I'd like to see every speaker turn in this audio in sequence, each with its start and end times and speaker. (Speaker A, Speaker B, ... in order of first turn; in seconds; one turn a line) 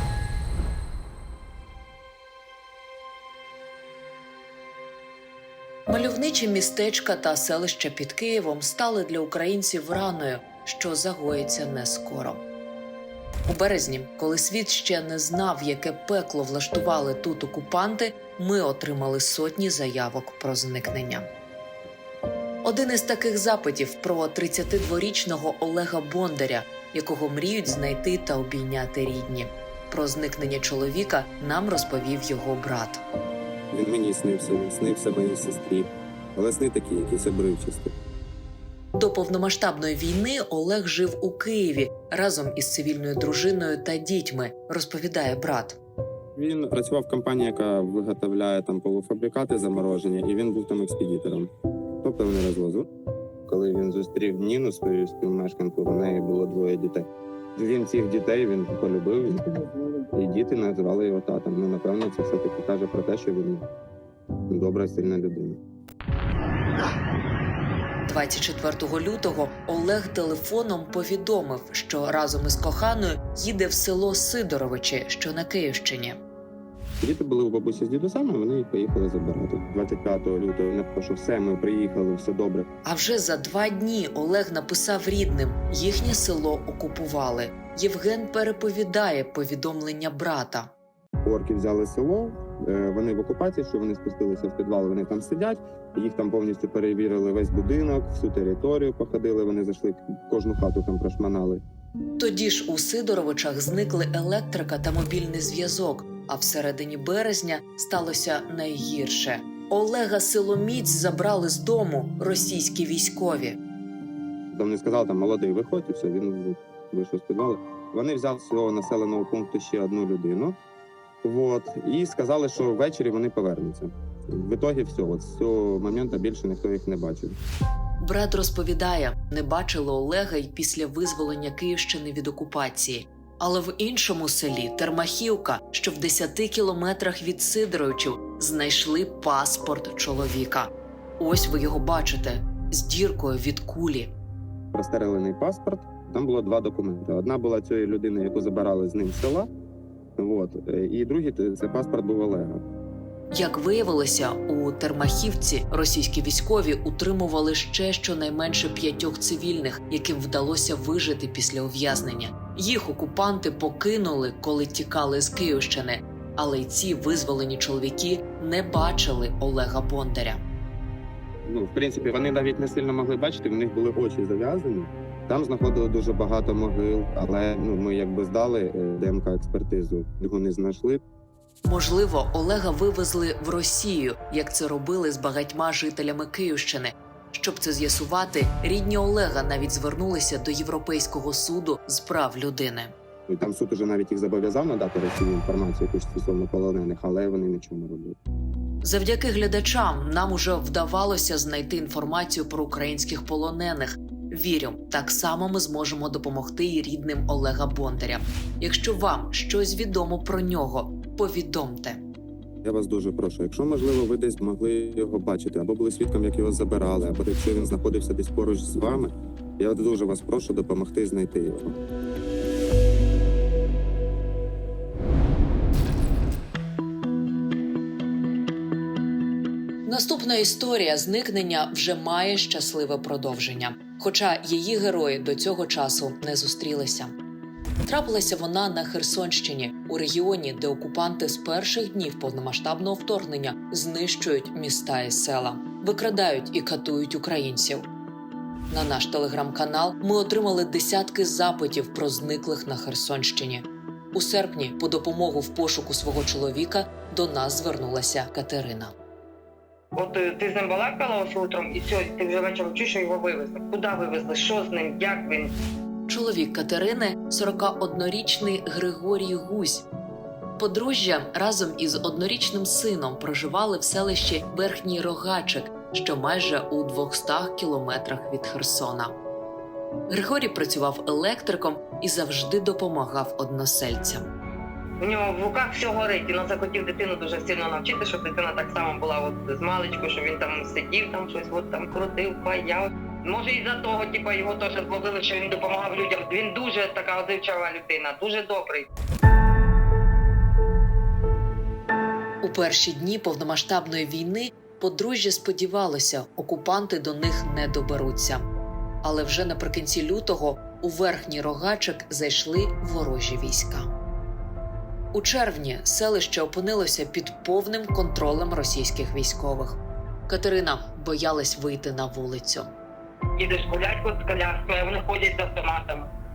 Speaker A: 5.9-12.4
Speaker A: 13.5-21.3
Speaker A: 22.6-33.0
Speaker B: 33.7-37.9
Speaker A: 39.0-45.8
Speaker B: 46.4-51.5
Speaker B: 52.0-52.9
Speaker B: 53.5-63.6
Speaker B: 64.5-65.6
Speaker A: 68.1-76.2
Speaker B: 77.0-82.7
Speaker A: 82.8-90.7
Speaker B: 91.2-101.6
Speaker A: 102.2-113.6
Speaker B: 114.5-120.6
Speaker B: 121.2-127.3
Speaker A: 128.0-144.2
Speaker B: 144.7-149.5
Speaker B: 150.2-152.6
Speaker A: 153.3-170.4
Speaker B: 171.5-181.0
Speaker A: 181.7-192.9
Speaker B: 193.3-198.2
Speaker A: 198.8-212.0
Speaker B: 212.6-221.8
Speaker A: 229.8-237.2
Speaker A: 237.8-247.9
Speaker A: 248.7-258.9
Speaker C: 259.9-265.6
Speaker A: 266.1-269.9
Speaker A: 270.6-279.1
Speaker A: 280.1-284.2
Speaker C: 285.0-298.9
Speaker A: 302.4-308.5
Speaker A: 309.0-313.9
Speaker A: 315.1-322.7
Speaker C: 323.4-326.1